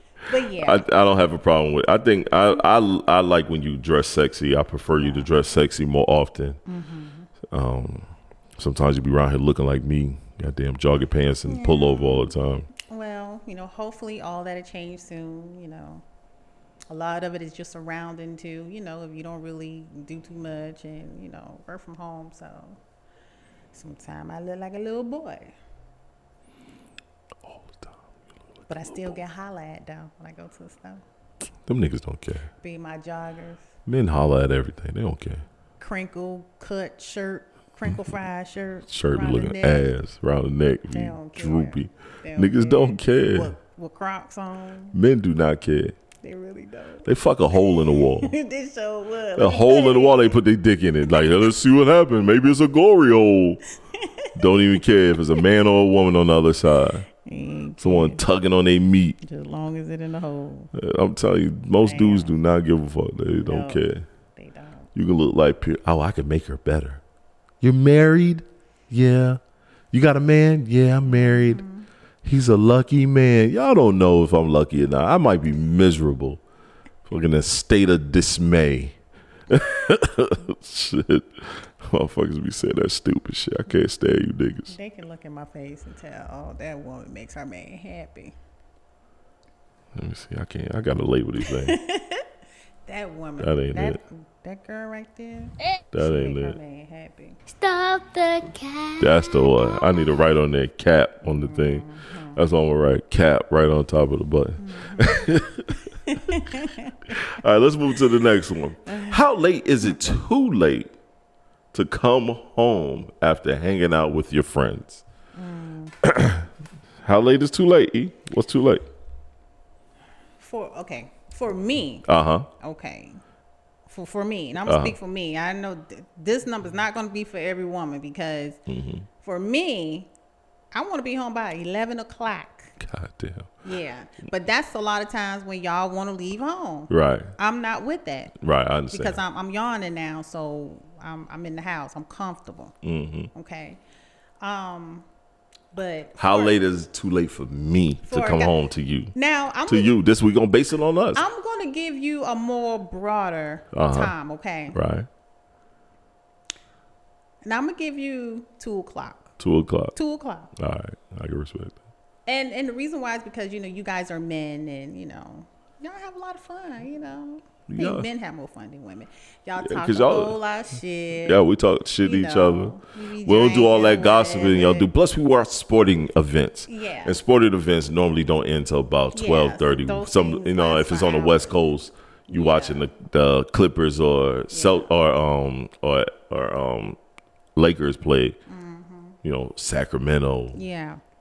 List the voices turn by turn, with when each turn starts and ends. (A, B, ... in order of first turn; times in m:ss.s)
0:00.3-0:00.9 A
0:00.6-0:06.6 B
0:05.0-0:05.3 A
0:06.7-0:07.3 A
0:07.5-0:12.7 B
0:11.5-0:16.0 A
0:16.9-0:22.8 A
0:23.7-0:25.6 A
0:27.5-0:28.0 B
0:28.7-0:31.0 A
0:31.7-0:32.5 B
0:32.6-0:33.7 A
0:33.9-0:35.4 B
0:35.8-0:39.9 A
0:38.9-0:43.5 B
0:40.9-0:45.0 A
0:44.9-0:46.0 B
0:46.2-0:50.4 A
0:47.0-0:48.3 B
0:49.4-0:53.6 B
0:53.9-0:54.8 A
0:54.3-0:57.1 B
0:57.1-0:58.3 A
0:57.8-0:59.2 B
0:59.2-1:00.7 A
1:00.7-1:04.1 B
1:01.8-1:02.4 A
1:03.4-1:04.9 A
1:05.0-1:07.0 B
1:07.6-1:09.4 B
1:09.9-1:11.6 B
1:11.0-1:11.9 A
1:12.2-1:16.4 B
1:17.1-1:19.0 B
1:19.5-1:24.8 B
1:24.7-1:28.3 A
1:30.0-1:31.8 B
1:31.4-1:32.3 A
1:32.8-1:37.4 A
1:33.4-1:34.0 B
1:35.9-1:36.6 B
1:37.5-1:39.8 C
1:39.0-1:45.8 B
1:41.2-1:42.4 A
1:44.6-1:45.4 A
1:46.0-1:47.1 A
1:47.1-1:50.9 B
1:48.9-1:49.2 A
1:51.7-1:55.0 B
1:55.3-1:56.0 A
1:56.0-1:56.5 B
1:57.0-1:58.8 B
2:00.4-2:03.2 A
2:02.1-2:02.5 B
2:03.9-2:08.6 A
2:04.6-2:05.0 B
2:08.7-2:09.1 B
2:09.2-2:10.1 A
2:10.7-2:12.7 A
2:12.8-2:13.5 B
2:13.6-2:18.4 A
2:16.9-2:17.3 B
2:18.4-2:19.2 B
2:18.9-2:22.8 A
2:22.8-2:23.3 B
2:23.3-2:23.8 A
2:24.4-2:25.1 A
2:25.7-2:26.6 A
2:26.2-2:29.1 B
2:28.1-2:28.6 A
2:29.1-2:30.0 A
2:29.7-2:31.2 B
2:31.1-2:34.8 A
2:33.7-2:34.1 B
2:34.7-2:35.1 B
2:37.4-2:39.4 A
2:39.4-2:40.0 B
2:40.0-2:40.5 A
2:40.6-2:41.8 B
2:42.3-2:51.4 A
2:47.7-2:48.1 B
2:49.6-2:50.4 B
2:51.2-3:07.0 B
2:52.0-2:54.9 A
2:56.7-2:57.2 A
2:59.1-3:01.6 A
3:02.3-3:02.9 A
3:04.5-3:04.9 A
3:07.6-3:08.4 B
3:08.5-3:09.2 A
3:09.2-3:10.6 B
3:10.5-3:11.0 A